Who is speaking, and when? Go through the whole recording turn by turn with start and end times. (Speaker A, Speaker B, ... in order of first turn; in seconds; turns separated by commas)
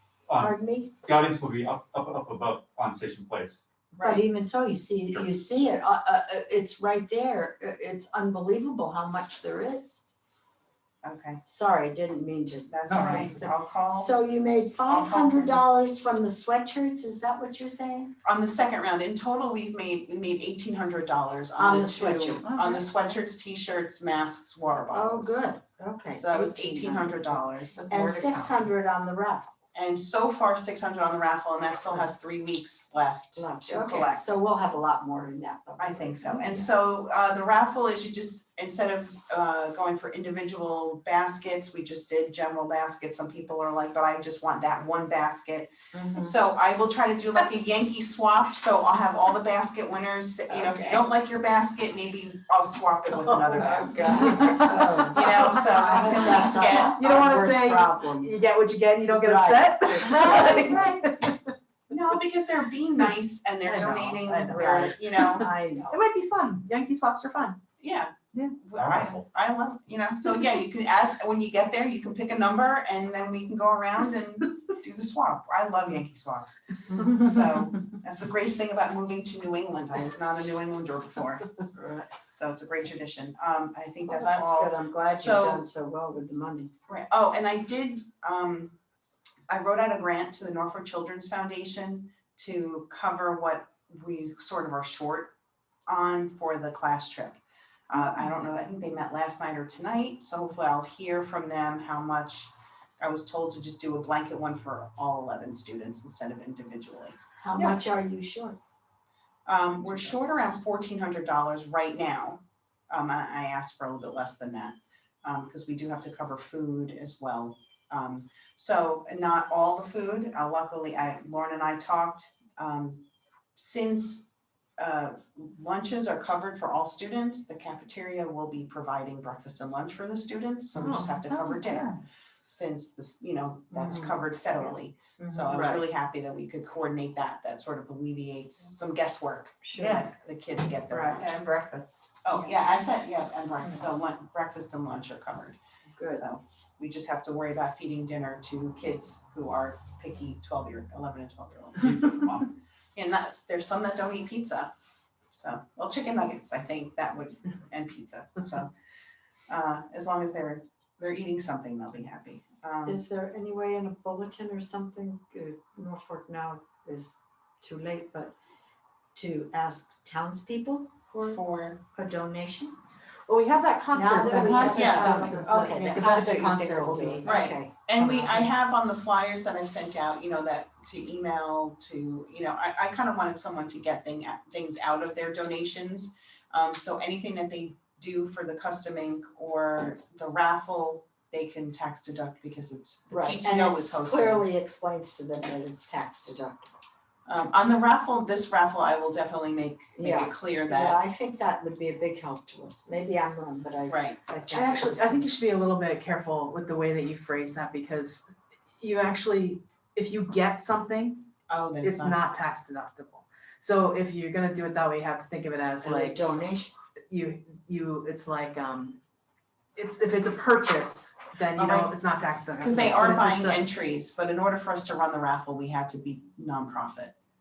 Speaker A: 0.3-0.5, Speaker B: 0.4-0.9, Speaker A: 1.1-3.6, Speaker C: 3.9-4.3, Speaker B: 4.0-10.1, Speaker C: 11.0-11.4, Speaker B: 11.4-18.1, Speaker C: 12.7-14.2, Speaker A: 12.9-13.3, Speaker C: 14.9-15.7, Speaker C: 18.2-25.4, Speaker B: 21.6-22.7, Speaker B: 24.9-27.4, Speaker C: 26.1-28.7, Speaker B: 27.9-29.5, Speaker C: 29.7-34.4, Speaker B: 33.4-36.7, Speaker C: 35.8-57.0, Speaker B: 45.9-46.4, Speaker B: 50.5-51.0, Speaker B: 53.2-58.4, Speaker D: 53.9-55.6, Speaker D: 57.0-61.4, Speaker B: 59.0-61.0, Speaker C: 60.2-61.0, Speaker C: 61.9-65.5, Speaker D: 63.6-67.6, Speaker B: 64.5-66.0, Speaker C: 67.8-81.5, Speaker A: 68.8-69.2, Speaker B: 81.7-82.1, Speaker C: 82.3-85.7, Speaker B: 84.0-86.7, Speaker C: 86.9-88.8, Speaker C: 89.5-95.3, Speaker C: 95.9-107.2, Speaker B: 107.4-108.6, Speaker C: 109.5-123.0, Speaker C: 123.6-141.5, Speaker D: 130.8-132.0, Speaker B: 133.7-134.2, Speaker B: 135.2-135.6, Speaker D: 135.5-135.8, Speaker B: 139.7-140.0, Speaker B: 140.9-142.6, Speaker C: 142.2-145.6, Speaker B: 146.0-146.2, Speaker C: 146.1-152.2, Speaker A: 151.9-152.5, Speaker C: 152.9-154.7, Speaker C: 155.3-158.7, Speaker C: 159.5-163.0, Speaker B: 162.9-168.3, Speaker B: 169.2-172.8, Speaker C: 171.2-171.8, Speaker D: 173.3-177.3, Speaker B: 173.9-178.5, Speaker C: 174.6-175.3, Speaker C: 177.2-194.4, Speaker B: 193.1-196.7, Speaker C: 197.3-201.0, Speaker B: 200.0-205.2, Speaker C: 203.9-204.4, Speaker D: 204.5-211.3, Speaker C: 211.5-212.2, Speaker D: 211.8-216.2, Speaker B: 215.8-216.7, Speaker D: 217.1-219.0, Speaker D: 219.8-223.6, Speaker C: 221.6-221.9, Speaker C: 222.6-227.1